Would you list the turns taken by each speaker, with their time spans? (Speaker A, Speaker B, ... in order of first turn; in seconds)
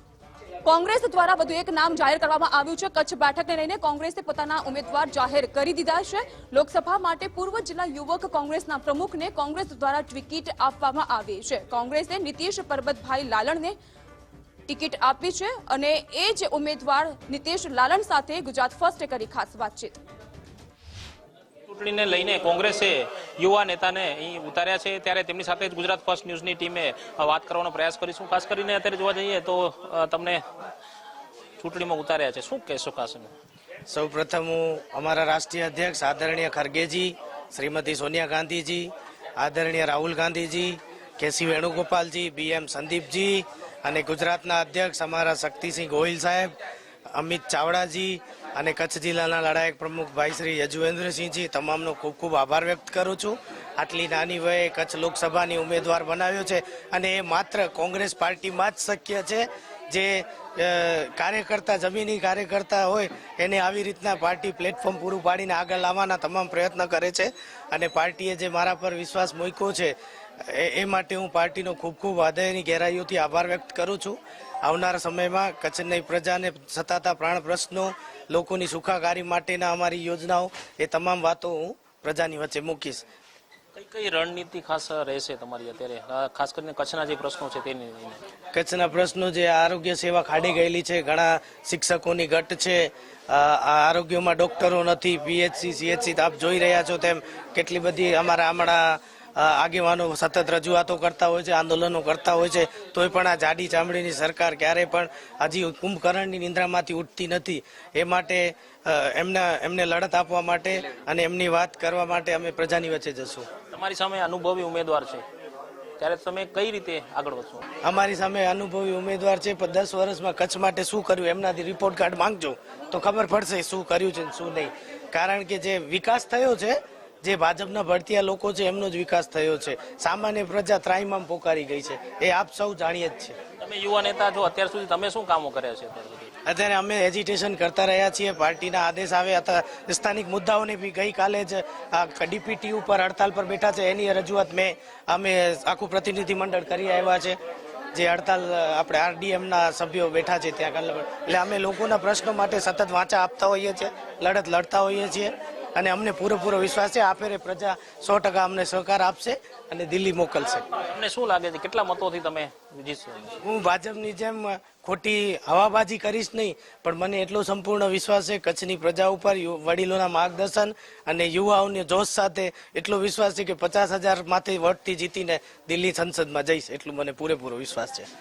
Speaker A: 0.6-13.7, 14.7-19.9
Speaker B: 21.7-30.4, 31.6-33.3, 83.7-88.2, 113.7-115.2, 116.0-117.6, 133.6-136.3, 160.8-163.4
Speaker C: 33.9-46.5, 47.1-83.0, 88.5-113.5, 117.8-133.4, 136.4-147.4, 147.9-160.7, 163.4-178.1